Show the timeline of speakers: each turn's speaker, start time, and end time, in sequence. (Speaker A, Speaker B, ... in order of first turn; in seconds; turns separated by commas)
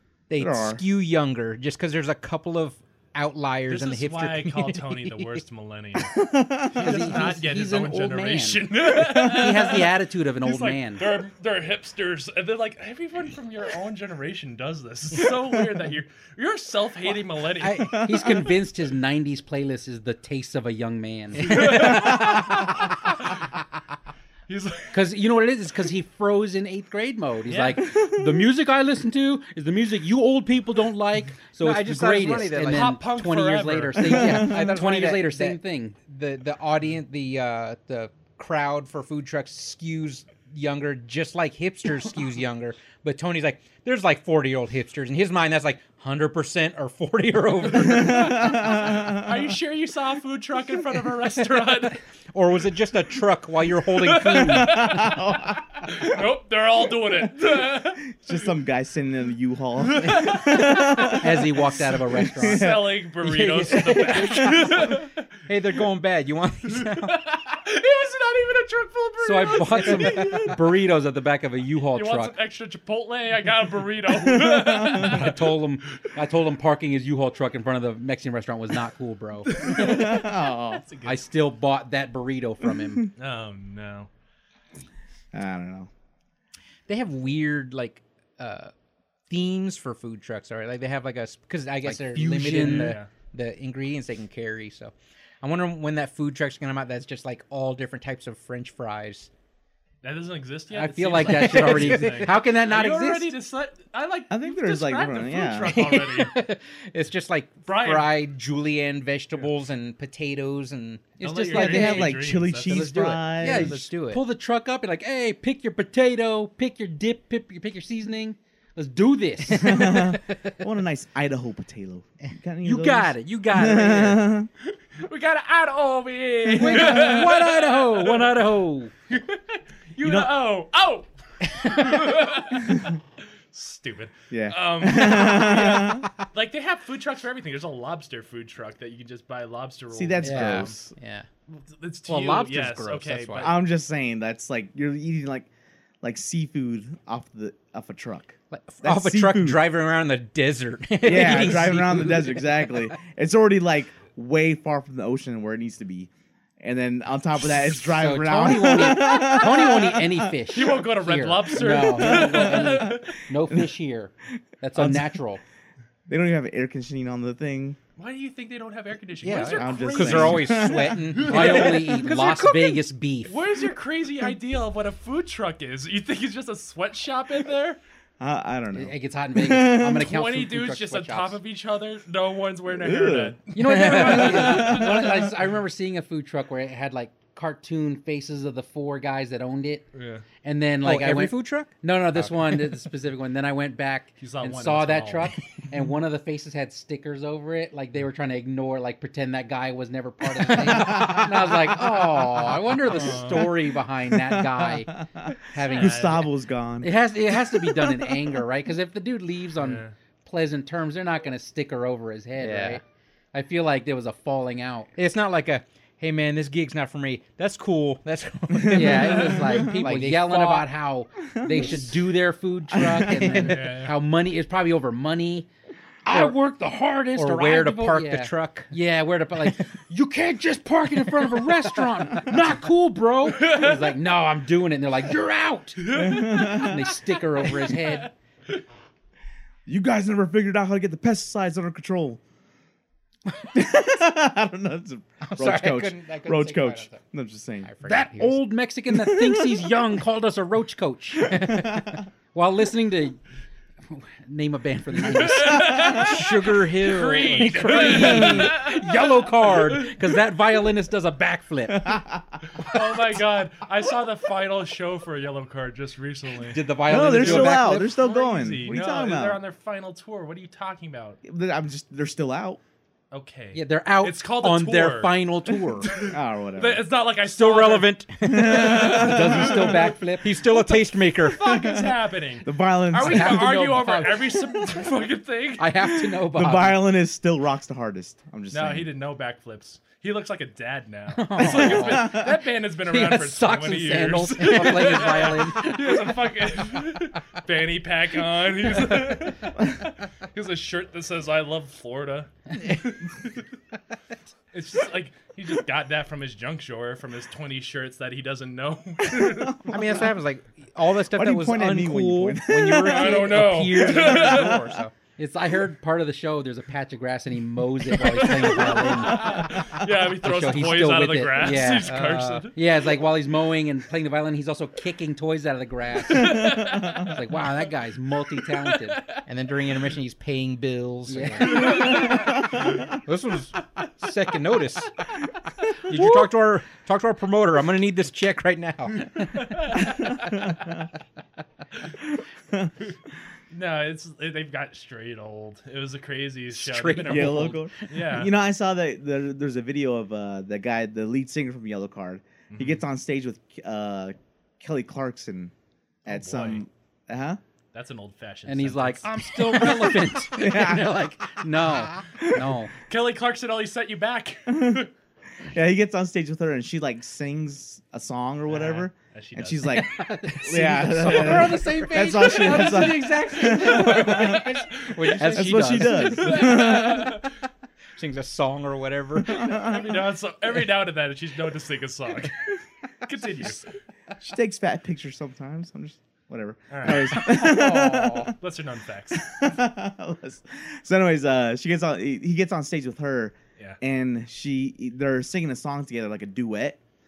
Speaker A: 0.3-5.4, Speaker B: 0.4-0.8, Speaker C: 3.7-6.2, Speaker B: 6.1-7.1, Speaker D: 6.8-11.1, Speaker C: 6.8-18.0, Speaker D: 17.6-22.4, Speaker B: 17.9-18.5, Speaker C: 21.4-23.4, Speaker A: 21.4-22.5, Speaker B: 22.0-22.6, Speaker C: 24.5-25.0, Speaker D: 24.9-36.0, Speaker C: 27.5-27.9, Speaker A: 31.6-33.0, Speaker C: 32.6-34.1, Speaker A: 34.0-48.6, Speaker B: 34.2-34.7, Speaker B: 47.7-49.3, Speaker C: 48.5-52.0, Speaker A: 52.3-55.2, Speaker C: 53.9-58.4, Speaker B: 54.8-56.0, Speaker B: 58.1-63.1, Speaker C: 59.9-61.2, Speaker D: 60.9-62.7, Speaker C: 62.4-65.2, Speaker D: 63.2-64.2, Speaker A: 63.4-67.2, Speaker C: 66.7-70.8, Speaker D: 69.2-72.3, Speaker A: 70.0-70.3, Speaker C: 71.9-75.6, Speaker B: 74.2-75.2, Speaker D: 74.9-80.1, Speaker C: 79.5-81.2, Speaker B: 79.6-80.8, Speaker D: 81.0-83.1, Speaker C: 83.2-84.1, Speaker B: 85.3-85.9, Speaker A: 86.9-88.7, Speaker A: 89.3-99.3, Speaker D: 91.8-93.0, Speaker C: 92.5-93.1, Speaker C: 100.0-106.4, Speaker D: 100.7-103.3, Speaker A: 101.1-102.4, Speaker B: 104.3-105.8, Speaker A: 105.7-114.2, Speaker C: 107.7-108.2, Speaker C: 111.2-112.8, Speaker D: 111.5-112.1, Speaker B: 111.5-113.8, Speaker D: 113.4-120.1, Speaker B: 119.5-124.5, Speaker A: 119.6-120.2, Speaker D: 122.6-124.3, Speaker C: 124.9-128.4, Speaker A: 126.5-128.3, Speaker D: 126.5-128.9, Speaker C: 129.1-133.0, Speaker B: 130.0-130.3, Speaker C: 133.5-140.8, Speaker B: 134.3-136.1, Speaker B: 139.9-140.9, Speaker A: 140.2-141.3, Speaker C: 141.5-143.6, Speaker D: 142.1-143.5, Speaker A: 142.1-142.4, Speaker B: 143.4-145.5, Speaker B: 146.0-149.6, Speaker A: 148.5-152.5, Speaker D: 150.9-152.2, Speaker B: 151.0-160.4, Speaker D: 157.9-165.4, Speaker A: 158.5-159.2, Speaker C: 160.5-163.2, Speaker B: 161.7-163.7, Speaker B: 164.8-165.2, Speaker B: 166.1-167.8, Speaker C: 168.0-172.1, Speaker A: 169.2-172.8, Speaker D: 169.2-170.6, Speaker B: 169.4-171.2, Speaker D: 171.2-173.4, Speaker C: 173.2-177.8, Speaker B: 178.2-180.1, Speaker D: 178.7-181.4, Speaker C: 179.9-185.3, Speaker B: 182.7-183.4, Speaker D: 183.5-189.8, Speaker A: 183.6-185.1, Speaker C: 189.9-190.2, Speaker D: 190.4-206.3, Speaker A: 190.8-192.7, Speaker C: 194.2-195.3, Speaker A: 200.6-203.4, Speaker B: 200.8-201.2, Speaker C: 202.9-203.5, Speaker B: 204.1-206.9, Speaker C: 205.6-206.3, Speaker D: 206.8-212.8, Speaker B: 207.5-208.1, Speaker C: 209.6-209.9, Speaker A: 212.4-212.8, Speaker D: 213.3-214.9, Speaker A: 214.9-220.7, Speaker B: 218.6-219.8, Speaker D: 218.7-225.5, Speaker B: 221.3-221.9, Speaker A: 221.6-221.8, Speaker B: 222.7-223.6, Speaker A: 222.9-223.6, Speaker C: 223.3-224.0, Speaker A: 226.1-228.7, Speaker D: 226.1-226.4, Speaker D: 227.2-238.1, Speaker A: 231.0-232.2, Speaker C: 233.3-234.0, Speaker C: 235.8-238.1, Speaker B: 235.9-236.9, Speaker B: 239.7-242.2, Speaker B: 243.5-247.7, Speaker A: 245.2-247.0, Speaker A: 247.7-248.5, Speaker D: 247.8-251.8, Speaker B: 248.9-249.5, Speaker B: 251.3-252.0, Speaker D: 252.3-253.2, Speaker D: 253.9-262.0, Speaker C: 255.0-260.2, Speaker A: 255.9-258.6, Speaker B: 261.7-262.4, Speaker C: 262.5-271.2, Speaker D: 266.5-267.9, Speaker B: 266.9-269.4, Speaker B: 271.2-272.6, Speaker C: 273.1-279.6, Speaker D: 273.5-275.9, Speaker B: 276.0-276.9, Speaker A: 277.3-281.5, Speaker B: 278.2-279.9, Speaker D: 278.5-280.7, Speaker C: 281.3-285.8, Speaker B: 281.4-283.6, Speaker D: 283.0-284.4, Speaker D: 285.6-286.9, Speaker B: 286.1-288.9, Speaker C: 288.5-303.3, Speaker D: 291.1-292.2, Speaker B: 291.4-292.4, Speaker D: 292.9-296.1, Speaker A: 294.5-295.2, Speaker C: 304.5-309.7, Speaker B: 309.1-310.1, Speaker A: 309.7-314.9, Speaker B: 311.1-313.4, Speaker C: 312.7-314.7, Speaker B: 314.1-314.6, Speaker D: 315.2-319.6, Speaker C: 318.0-322.6, Speaker A: 318.5-319.3, Speaker D: 320.2-329.0, Speaker A: 321.4-322.5, Speaker C: 326.1-327.2, Speaker B: 326.4-327.0, Speaker C: 328.5-329.2, Speaker A: 329.3-334.9, Speaker D: 331.1-332.2, Speaker C: 331.5-332.5, Speaker B: 331.8-332.8, Speaker A: 335.7-340.1, Speaker B: 339.9-340.6, Speaker C: 343.5-348.3, Speaker A: 346.6-347.6, Speaker D: 346.7-347.6, Speaker B: 347.0-355.5, Speaker C: 352.5-352.8, Speaker B: 356.1-357.4, Speaker C: 356.1-356.6, Speaker C: 357.7-359.1, Speaker D: 358.5-362.7, Speaker A: 359.4-360.0, Speaker B: 360.3-361.1, Speaker B: 362.2-362.5, Speaker C: 362.8-364.9, Speaker B: 364.5-364.8, Speaker B: 365.4-374.6, Speaker C: 368.5-369.9, Speaker D: 369.7-374.4, Speaker A: 370.3-377.1, Speaker C: 374.0-375.1, Speaker D: 375.0-376.2, Speaker B: 375.3-377.2, Speaker C: 376.1-377.3, Speaker A: 378.0-379.7, Speaker B: 379.3-380.0, Speaker C: 379.4-383.7, Speaker B: 384.2-388.3, Speaker C: 386.7-387.3, Speaker A: 387.1-388.3, Speaker C: 388.4-389.4, Speaker B: 389.1-396.8